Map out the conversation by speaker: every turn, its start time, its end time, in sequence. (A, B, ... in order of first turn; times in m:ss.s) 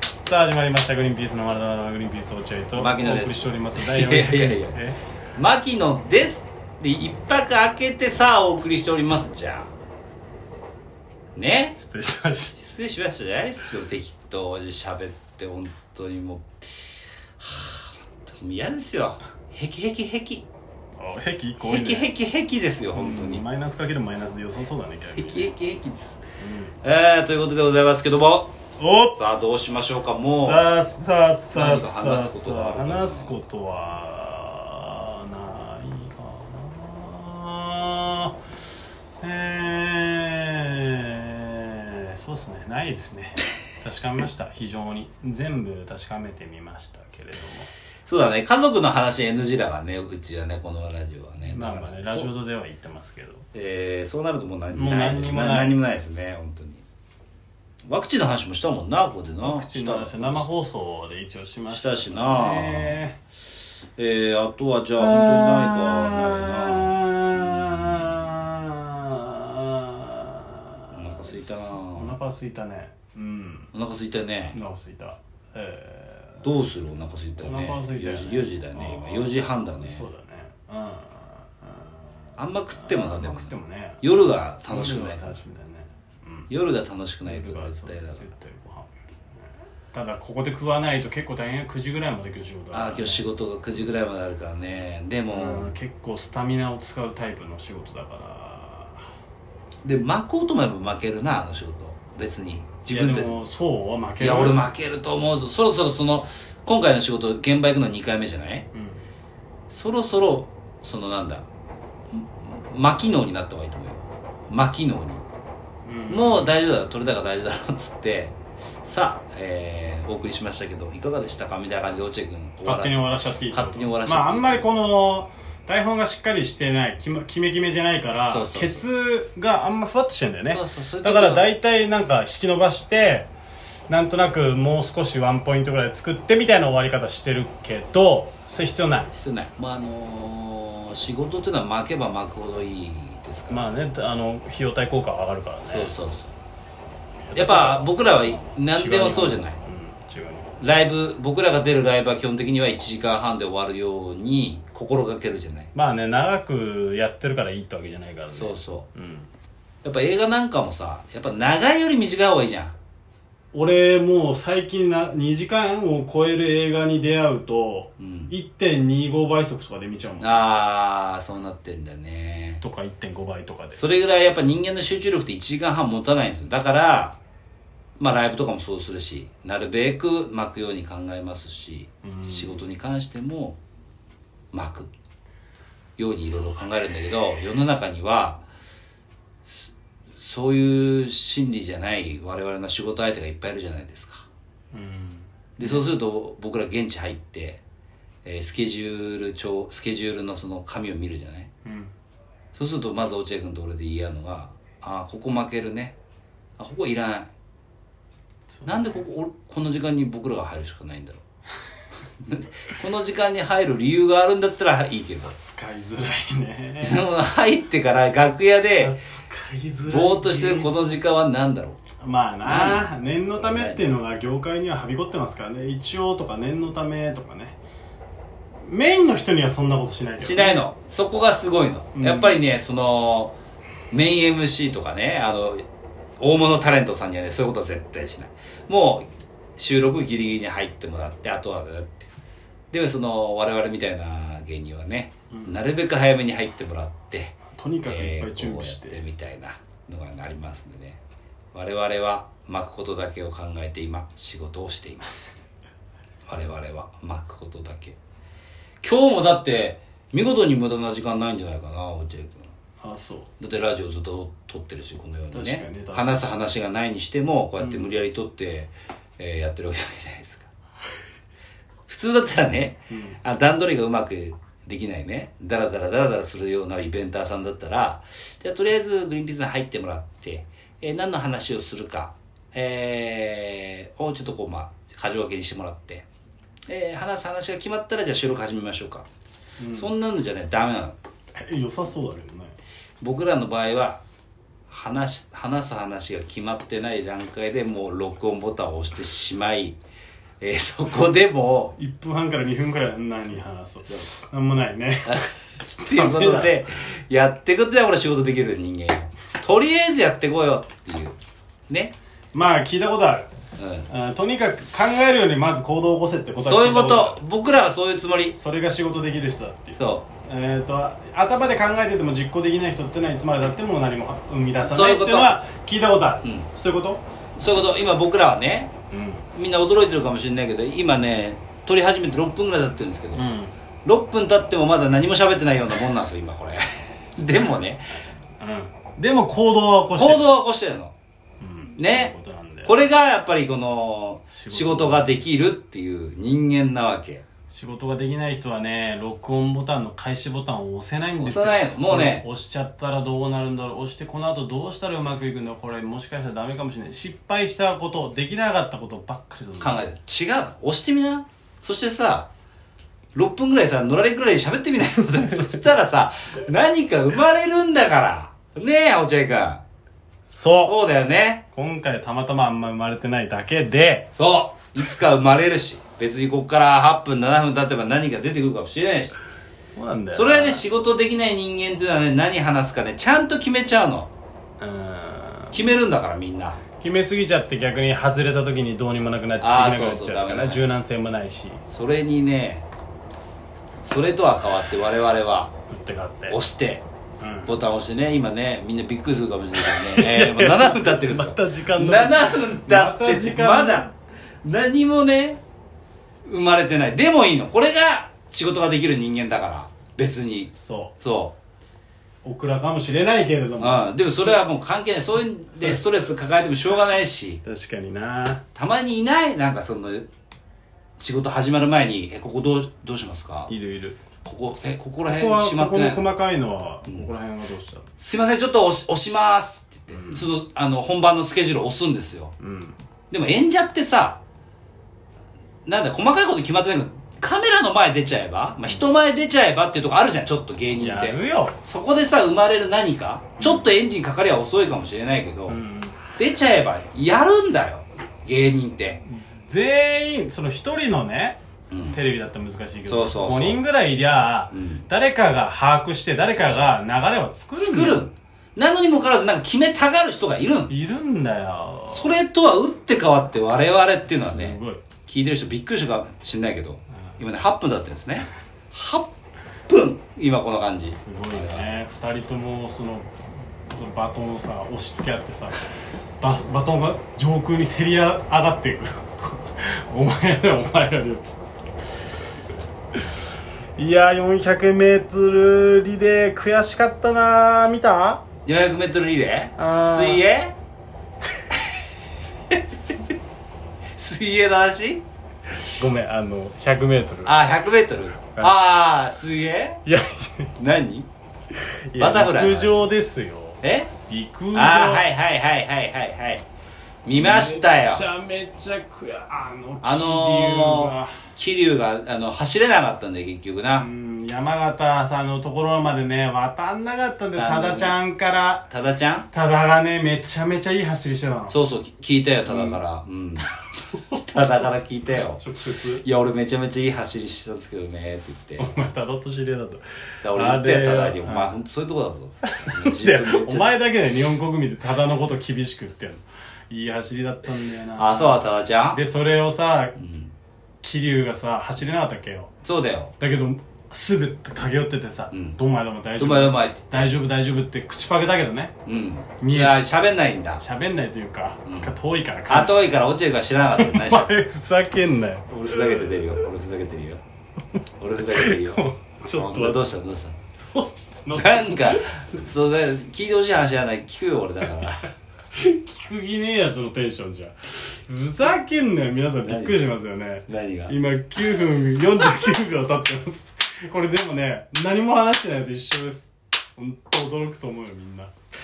0:00.2-0:05.0 A
0:02.8-0:04.8 B
0:05.4-0:09.7 B
0:11.3-0:11.8 B
0:11.8-0:12.6 A
0:12.6-0:16.8 B
0:17.4-0:20.4 B
0:21.0-0:22.1 A
0:21.7-0:23.4 B
0:22.9-0:25.5 A
0:25.1-0:26.2 B
0:26.4-0:26.7 A
0:26.8-0:28.5 B
0:28.8-0:29.2 A
0:29.1-0:30.7 B
0:30.3-0:38.3 A
0:31.5-0:33.4 B
0:39.2-0:47.7 A
0:48.0-0:52.3 B
0:51.4-0:53.4 A
0:53.5-0:56.8 B
0:54.7-0:55.8 A
0:57.8-1:00.5 B
0:59.4-1:03.2 A
1:01.7-1:03.0 B
1:04.0-1:08.1 B
1:05.0-1:13.7 A
1:10.9-1:12.2 B
1:13.7-1:14.6 B
1:14.5-1:16.5 A
1:16.4-1:20.0 B
1:17.4-1:24.0 A
1:22.4-1:25.4 B
1:24.7-1:26.5 A
1:26.5-1:28.2 B
1:27.2-1:28.9 A
1:29.9-1:33.3 A
1:32.7-1:35.7 B
1:35.3-1:39.0 A
1:39.8-1:43.4 B
1:42.9-1:44.6 A
1:44.2-1:48.7 B
1:48.7-1:49.0 A
1:49.7-1:51.5 B
1:52.1-1:55.2 B
1:55.8-1:56.6 A
1:56.1-2:04.6 B
2:02.6-2:13.3 A
2:08.2-2:08.8 B
2:10.5-2:11.5 B
2:13.9-2:19.1 A
2:19.1-2:23.7 B
2:23.5-2:25.9 A
2:25.6-2:26.3 B
2:27.3-2:30.6 A
2:27.3-2:29.6 B
2:30.6-2:35.7 B
2:35.7-2:39.3 A
2:38.3-2:38.9 B
2:39.8-2:42.7 B
2:43.5-2:50.4 A
2:48.0-2:48.3 B
2:50.2-2:52.6 B
2:52.6-2:53.8 A
2:53.7-2:57.2 B
2:58.0-3:03.6 B
3:02.0-3:02.6 A
3:04.5-3:04.9 B
3:06.0-3:08.4 B
3:09.5-3:14.2 B
3:14.7-3:15.9 A
3:15.6-3:17.6 B
3:18.2-3:21.5 B
3:21.6-3:21.9 A
3:22.5-3:25.9 B
3:26.6-3:27.3 B
3:28.5-3:29.0 A
3:28.6-3:31.2 B
3:32.2-3:35.3 B
3:35.3-3:37.0 A
3:36.8-3:38.9 B
3:38.8-3:40.7 A
3:39.9-3:41.8 B
3:42.0-3:47.6 A
3:42.4-3:42.9 B
3:43.4-3:43.8 B
3:48.6-3:50.6 A
3:50.2-3:53.4 B
3:51.9-3:52.4 A
3:53.9-3:55.6 B
3:56.2-4:02.1 B
4:02.7-4:11.0 B
4:05.3-4:05.6 A
4:07.5-4:09.0 A
4:11.5-4:15.3 B
4:16.3-4:18.0 B
4:18.8-4:22.5 B
4:22.8-4:23.3 A
4:23.4-4:30.5 B
4:25.3-4:26.4 A
4:27.6-4:28.0 A
4:31.9-4:46.0 B
4:32.9-4:33.2 A
4:46.7-4:49.1 B
4:49.6-4:49.9 A
4:49.7-4:51.0 B
4:51.4-4:52.6 A
4:53.0-4:54.0 B
4:54.7-4:59.8 B
5:00.4-5:01.7 B
5:01.8-5:06.6 A
5:05.0-5:11.2 B
5:11.7-5:11.9 B
5:12.3-5:13.3 A
5:13.6-5:13.9 B
5:13.9-5:17.2 A
5:16.4-5:18.3 B
5:18.3-5:27.0 A
5:19.7-5:20.0 B
5:24.6-5:25.4 B
5:27.4-5:28.7 B
5:28.9-5:29.3 A
5:29.3-5:33.2 B
5:33.1-5:33.5 A
5:33.8-5:38.0 B
5:38.4-5:40.3 A
5:39.9-5:40.9 B
5:41.4-5:42.8 A
5:41.8-5:42.1 B
5:42.6-5:47.2 B
5:44.3-5:45.1 A
5:47.5-5:59.8 A
5:51.2-5:52.2 B
5:59.6-6:02.3 B
6:03.1-6:09.6 B
6:10.3-6:10.8 A
6:10.6-6:11.4 B
6:11.5-6:14.1 A
6:14.1-6:19.2 B
6:19.8-6:20.6 A
6:20.1-6:24.1 B
6:24.6-6:25.6 A
6:25.5-6:26.6 B
6:26.8-6:31.6 A
6:29.4-6:30.6 B
6:31.7-6:32.6 B
6:33.8-6:35.5 B
6:35.7-6:36.4 A
6:36.3-6:36.8 B
6:37.2-6:37.6 A
6:37.5-6:45.4 B
6:39.6-6:43.9 A
6:46.2-6:51.3 B
6:50.5-6:50.9 A
6:52.2-6:54.4 A
6:53.6-6:57.4 B
6:57.4-6:58.4 A
6:58.5-7:00.1 B
7:01.0-7:03.5 B
7:03.5-7:04.0 A
7:04.2-7:06.0 B
7:05.0-7:07.9 A
7:08.0-7:12.3 B
7:09.9-7:10.3 A
7:12.4-7:12.8 A
7:13.1-7:14.2 B
7:15.6-7:25.6 B
7:20.8-7:21.6 A
7:23.4-7:23.7 A
7:25.5-7:26.0 A
7:26.2-7:29.0 B
7:29.0-7:31.4 A
7:31.7-7:32.0 B
7:31.9-7:38.1 A
7:32.8-7:33.6 B
7:34.5-7:34.8 B
7:36.3-7:36.6 B
7:37.6-7:40.7 B
7:40.7-7:42.2 A
7:41.9-7:49.1 B
7:44.0-7:44.8 A
7:49.7-7:51.7 B
7:50.9-8:01.4 A
8:03.8-8:08.2 A
8:08.4-8:10.5 B
8:09.6-8:10.2 A
8:14.0-8:15.0 B
8:15.7-8:17.4 A
8:17.2-8:19.8 B
8:19.8-8:20.5 A
8:20.6-8:21.1 B
8:21.9-8:25.1 A
8:22.0-8:22.9 B
8:23.6-8:23.9 B
8:24.5-8:26.4 B
8:27.0-8:28.0 B
8:27.1-8:31.3 A
8:29.8-8:33.9 B
8:33.8-8:38.7 A
8:37.4-8:38.0 B
8:38.7-8:39.3 B
8:39.3-8:41.6 A
8:41.5-8:43.5 B
8:42.4-8:42.8 A
8:43.9-8:44.7 A
8:44.3-8:45.4 B
8:45.4-8:46.0 A
8:46.0-8:48.7 B
8:48.6-8:49.8 A
8:50.2-8:53.7 B
8:50.3-8:51.6 A
8:52.4-9:00.0 A
8:57.9-8:59.0 B
9:00.0-9:00.3 B
9:00.8-9:02.5 A
9:02.6-9:03.1 B
9:03.2-9:08.7 A
9:05.3-9:05.6 B
9:06.2-9:07.2 B
9:08.8-9:10.6 B
9:09.4-9:09.8 A
9:10.6-9:12.9 A
9:11.6-9:12.0 B
9:12.5-9:14.4 B
9:13.8-9:16.4 A
9:15.5-9:17.2 B
9:18.0-9:20.3 B
9:18.3-9:19.8 A
9:20.7-9:22.2 A
9:21.3-9:25.1 B
9:25.5-9:38.3 A
9:29.4-9:29.8 B
9:30.5-9:30.9 B